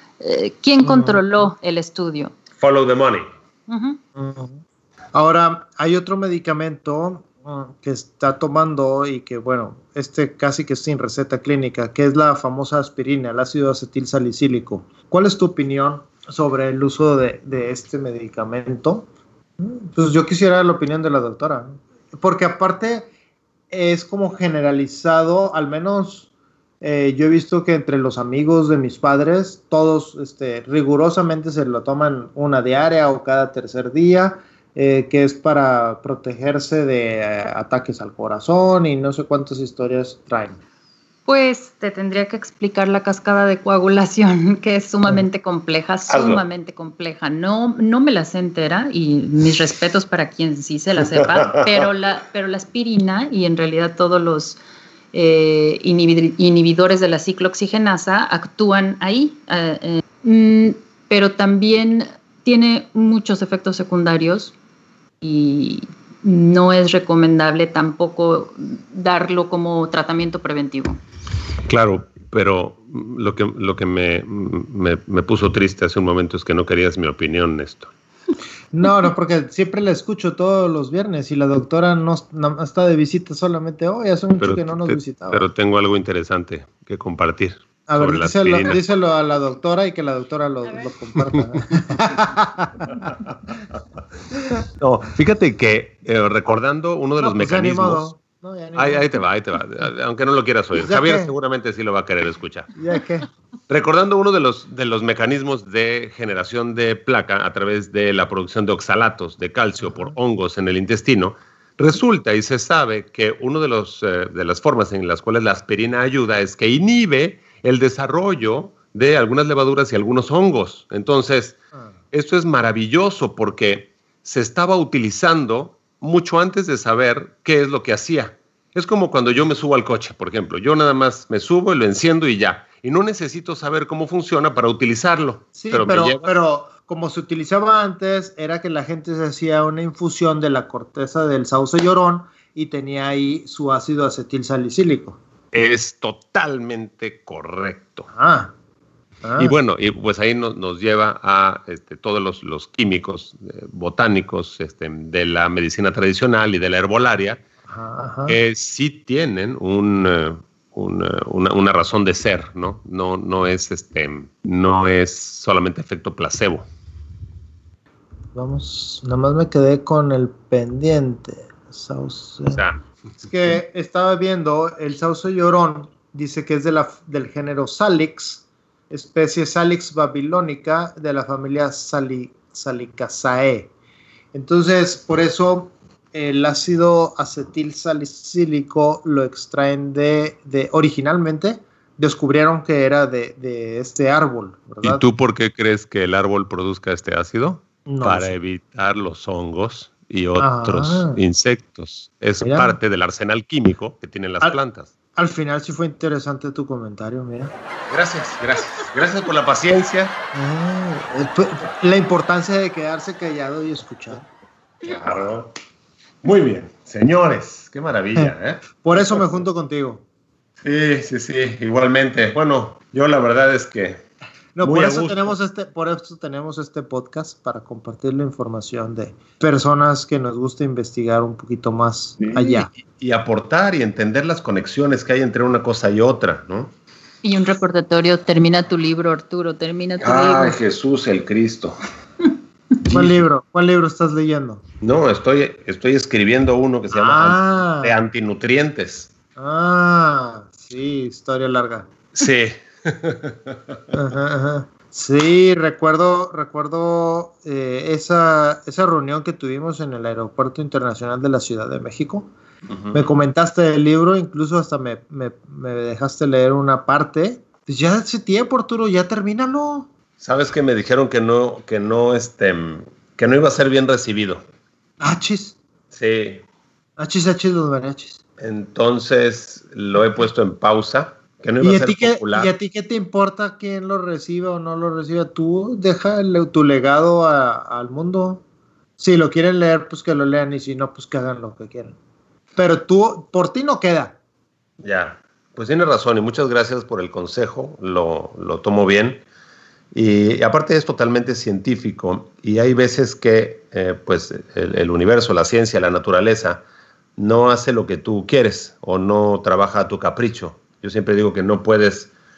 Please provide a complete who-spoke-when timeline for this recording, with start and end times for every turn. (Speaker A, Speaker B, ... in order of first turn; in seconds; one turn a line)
Speaker A: 0.2-2.3
Speaker B: 0.8-1.2
Speaker C: 2.6-3.3
Speaker A: 3.7-4.0
Speaker B: 4.2-4.6
Speaker B: 5.1-19.1
Speaker B: 19.6-23.1
Speaker B: 23.7-26.3
Speaker B: 26.8-40.6
Speaker A: 41.3-54.6
Speaker C: 46.1-46.4
Speaker C: 51.1-51.8
Speaker A: 55.1-64.5
Speaker A: 65.2-71.0
Speaker C: 71.7-77.9
Speaker B: 78.7-85.5
Speaker C: 84.4-88.8
Speaker B: 87.9-93.1
Speaker C: 94.8-98.1
Speaker B: 97.2-99.1
Speaker C: 98.8-102.7
Speaker B: 100.8-101.3
Speaker B: 102.7-103.3
Speaker C: 103.7-121.6
Speaker B: 109.8-110.1
Speaker C: 122.1-136.3
Speaker B: 135.5-145.2
Speaker C: 145.5-148.1
Speaker B: 148.1-148.5
Speaker B: 149.2-149.5
Speaker C: 149.4-157.4
Speaker B: 157.7-158.4
Speaker C: 158.3-166.7
Speaker B: 168.3-172.6
Speaker C: 172.5-172.8
Speaker B: 173.2-183.7
Speaker B: 184.3-195.1
Speaker C: 194.8-204.9
Speaker B: 197.8-198.3
Speaker B: 200.4-201.2
Speaker B: 202.4-202.8
Speaker B: 205.2-207.5
Speaker C: 207.9-210.2
Speaker B: 210.3-214.3
Speaker C: 214.8-215.5
Speaker C: 216.2-219.2
Speaker B: 218.1-220.0
Speaker C: 220.6-224.0
Speaker B: 224.6-232.7
Speaker C: 224.6-225.3
Speaker C: 232.2-236.7
Speaker A: 237.2-240.6
Speaker C: 240.0-241.8
Speaker C: 242.8-243.2
Speaker B: 242.9-244.6
Speaker C: 244.8-249.1
Speaker B: 246.9-248.0
Speaker B: 249.3-251.9
Speaker C: 252.1-253.8
Speaker B: 253.9-262.3
Speaker C: 262.7-263.1
Speaker B: 262.9-269.9
Speaker C: 270.2-274.4
Speaker B: 275.0-275.6
Speaker C: 275.9-276.4
Speaker B: 277.0-278.2
Speaker C: 278.4-282.5
Speaker B: 281.6-288.4
Speaker B: 289.0-292.0
Speaker B: 292.6-294.1
Speaker C: 294.8-299.2
Speaker C: 299.9-306.6
Speaker C: 307.2-312.1